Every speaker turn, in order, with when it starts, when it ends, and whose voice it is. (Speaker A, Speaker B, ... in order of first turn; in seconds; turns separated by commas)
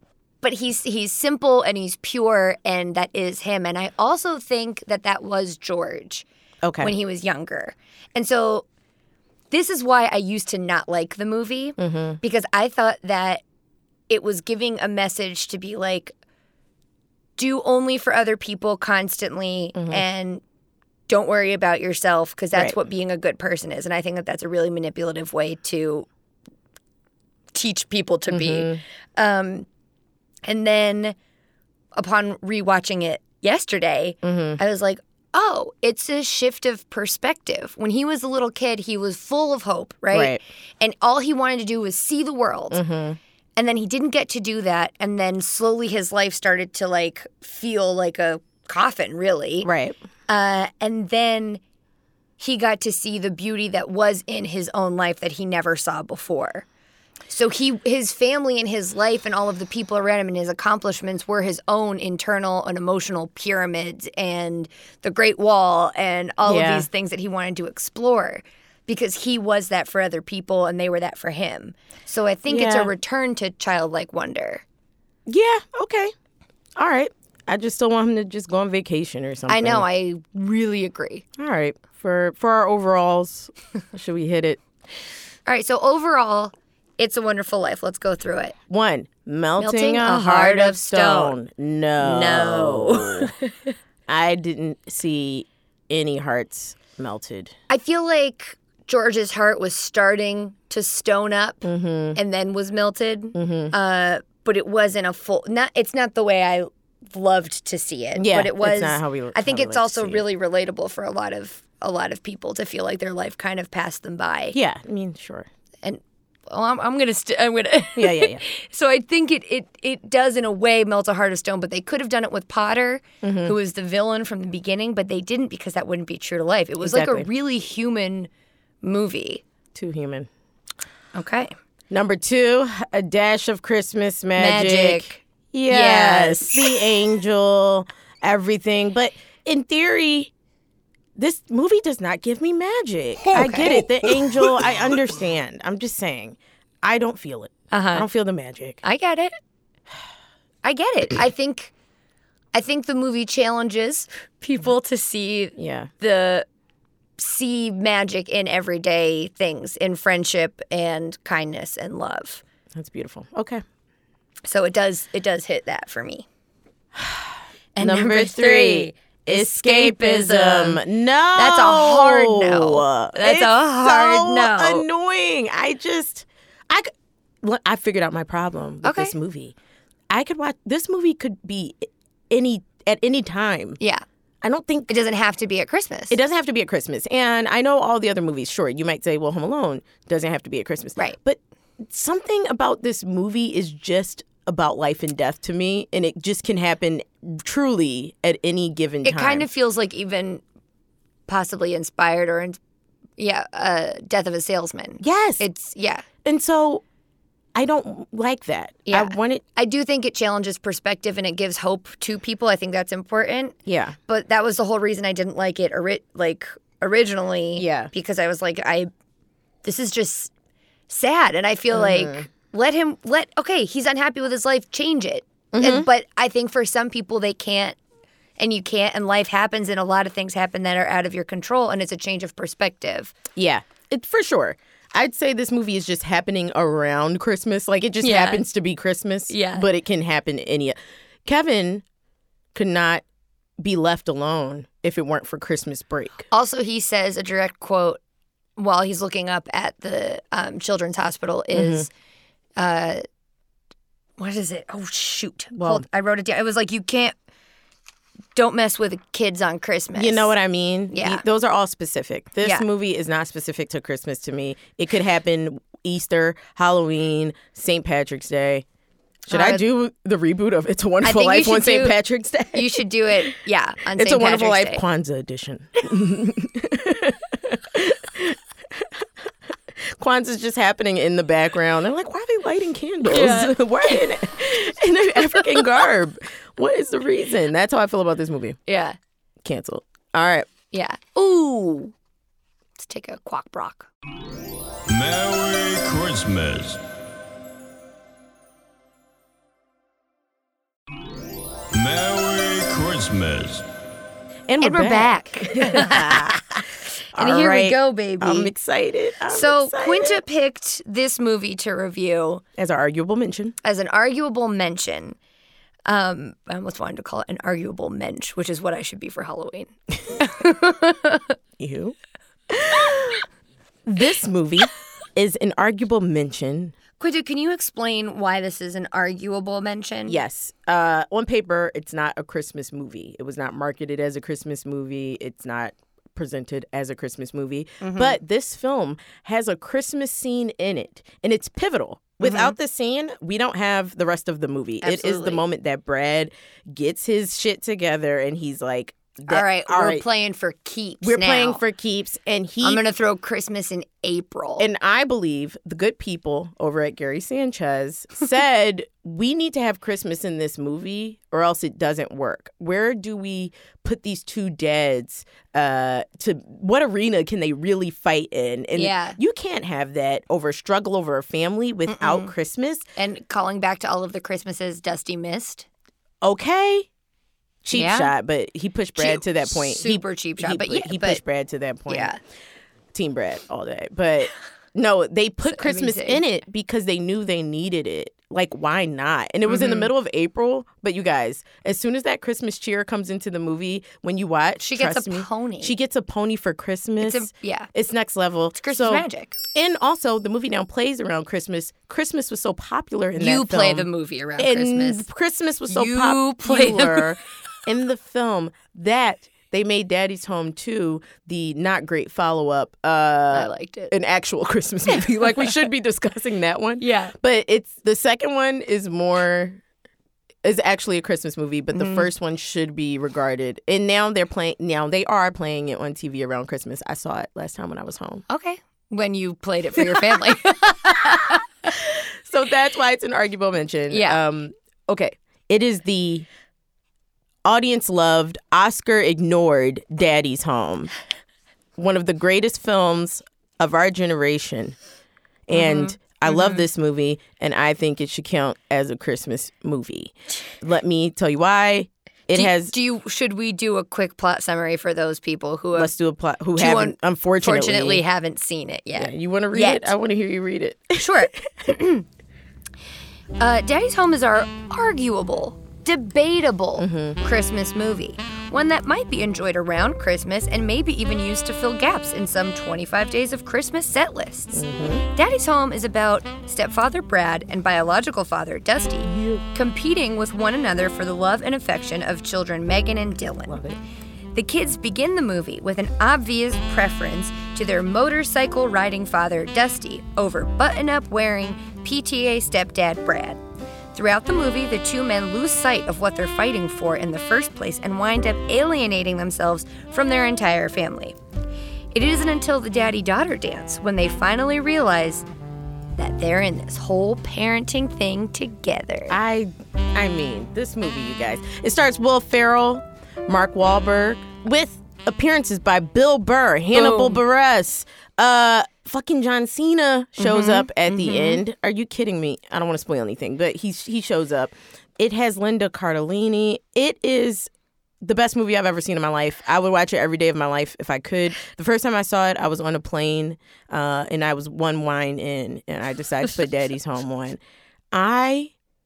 Speaker A: 0.4-6.2, Speaker B: 6.6-6.9, Speaker A: 6.8-8.7, Speaker A: 9.5-13.4, Speaker B: 11.8-12.2, Speaker A: 14.1-16.1, Speaker A: 17.4-20.4, Speaker B: 19.8-20.0, Speaker A: 21.1-26.1, Speaker A: 27.5-29.7, Speaker B: 28.3-28.8, Speaker A: 30.4-31.1, Speaker A: 31.9-42.8, Speaker B: 34.2-34.6, Speaker B: 40.1-40.4, Speaker B: 42.7-43.2, Speaker A: 43.5-49.7, Speaker B: 49.6-50.0, Speaker A: 50.3-51.6, Speaker A: 52.4-56.6, Speaker A: 57.3-74.6, Speaker B: 66.4-66.9, Speaker B: 72.5-72.9, Speaker B: 75.3-76.1, Speaker B: 76.8-79.8, Speaker A: 79.5-81.2, Speaker B: 81.4-84.6, Speaker A: 85.5-88.5, Speaker B: 88.7-93.3, Speaker A: 89.6-91.3, Speaker A: 92.0-93.5, Speaker B: 94.1-97.5, Speaker A: 97.7-114.6, Speaker B: 101.6-102.2, Speaker B: 103.3-103.7, Speaker B: 108.1-110.2, Speaker B: 114.5-115.5, Speaker A: 115.8-128.3, Speaker B: 118.0-118.4, Speaker B: 123.2-123.5, Speaker B: 126.8-127.3, Speaker A: 128.8-129.4, Speaker B: 129.7-130.3, Speaker A: 131.1-131.5, Speaker B: 131.9-140.3, Speaker A: 134.4-136.6, Speaker B: 141.2-148.8, Speaker A: 143.3-143.9, Speaker A: 147.7-148.1, Speaker A: 148.8-149.3, Speaker A: 150.6-151.7, Speaker A: 152.5-156.4, Speaker B: 155.6-155.9, Speaker A: 157.2-162.4, Speaker B: 162.7-163.6, Speaker A: 164.5-166.2, Speaker B: 166.9-176.9, Speaker A: 167.8-170.8, Speaker A: 171.3-174.8, Speaker B: 177.4-179.5, Speaker A: 178.8-179.1, Speaker B: 180.1-183.8, Speaker B: 184.4-184.9, Speaker A: 184.9-186.2, Speaker B: 186.1-199.4, Speaker A: 199.0-200.4, Speaker A: 201.3-202.6, Speaker A: 203.2-206.0, Speaker B: 205.0-205.4, Speaker B: 206.2-206.8, Speaker B: 207.5-209.4, Speaker A: 208.9-213.6, Speaker B: 213.7-213.9, Speaker A: 214.1-218.9, Speaker B: 217.6-217.9, Speaker A: 219.6-220.3, Speaker A: 220.9-227.8, Speaker B: 221.7-222.3, Speaker B: 225.5-225.9, Speaker A: 228.4-233.1, Speaker B: 233.3-241.8, Speaker A: 238.0-238.4, Speaker A: 239.3-239.7, Speaker B: 242.5-243.0, Speaker B: 243.6-246.3, Speaker A: 246.3-248.0, Speaker A: 248.6-251.9, Speaker B: 251.5-251.9, Speaker A: 252.6-253.0, Speaker A: 254.2-257.1, Speaker B: 255.5-255.8, Speaker A: 258.4-260.3, Speaker B: 259.9-268.6, Speaker A: 260.9-261.2, Speaker B: 269.3-273.3, Speaker A: 269.3-269.6, Speaker A: 271.0-272.0, Speaker A: 272.5-274.8, Speaker B: 273.9-279.0, Speaker B: 279.8-288.6, Speaker A: 283.0-284.0, Speaker A: 288.7-289.0, Speaker B: 289.4-290.5, Speaker A: 290.7-291.9, Speaker A: 292.8-293.9, Speaker C: 294.9-296.8, Speaker C: 301.7-303.6, Speaker B: 304.5-306.4, Speaker A: 304.6-308.5, Speaker B: 307.1-310.2, Speaker A: 309.3-312.4, Speaker B: 312.6-313.5, Speaker A: 313.6-315.2, Speaker A: 315.9-321.3, Speaker B: 321.6-321.9, Speaker B: 322.5-323.2, Speaker B: 323.9-326.7, Speaker A: 327.0-330.2, Speaker B: 330.1-350.0, Speaker A: 337.8-338.2, Speaker A: 342.2-342.5, Speaker A: 344.8-345.4, Speaker A: 349.3-351.6, Speaker B: 351.0-352.8, Speaker A: 352.6-354.7, Speaker B: 354.6-372.8, Speaker A: 368.7-369.2, Speaker A: 371.9-372.3, Speaker A: 372.9-375.7, Speaker B: 376.2-376.9, Speaker B: 377.6-382.1, Speaker A: 377.7-378.1, Speaker A: 379.0-381.2, Speaker A: 381.9-382.2, Speaker B: 382.9-419.6, Speaker A: 385.5-386.2, Speaker A: 389.5-389.9, Speaker A: 394.6-395.7, Speaker A: 397.0-397.7, Speaker A: 398.6-399.4, Speaker A: 403.1-405.1, Speaker A: 405.7-407.1, Speaker A: 413.3-413.9, Speaker A: 414.9-415.3, Speaker A: 416.8-417.1, Speaker B: 420.4-428.2, Speaker A: 421.7-422.1, Speaker A: 428.3-431.4, Speaker B: 429.8-430.2, Speaker B: 431.7-436.3, Speaker A: 433.9-434.2, Speaker B: 437.4-440.9, Speaker B: 441.8-444.8, Speaker B: 445.5-452.7, Speaker A: 445.5-446.6, Speaker A: 452.3-455.9, Speaker B: 455.7-458.0, Speaker A: 456.6-459.9, Speaker B: 458.9-461.7, Speaker A: 461.0-462.0, Speaker A: 463.4-483.6, Speaker B: 466.8-467.2, Speaker B: 474.5-475.1, Speaker B: 479.1-479.4, Speaker B: 483.5-483.8, Speaker A: 484.3-493.4, Speaker A: 493.9-501.2, Speaker A: 501.9-505.2, Speaker A: 506.0-509.2, Speaker B: 509.1-527.5, Speaker A: 516.7-517.2, Speaker A: 520.2-521.4, Speaker B: 528.0-537.4, Speaker B: 537.9-538.5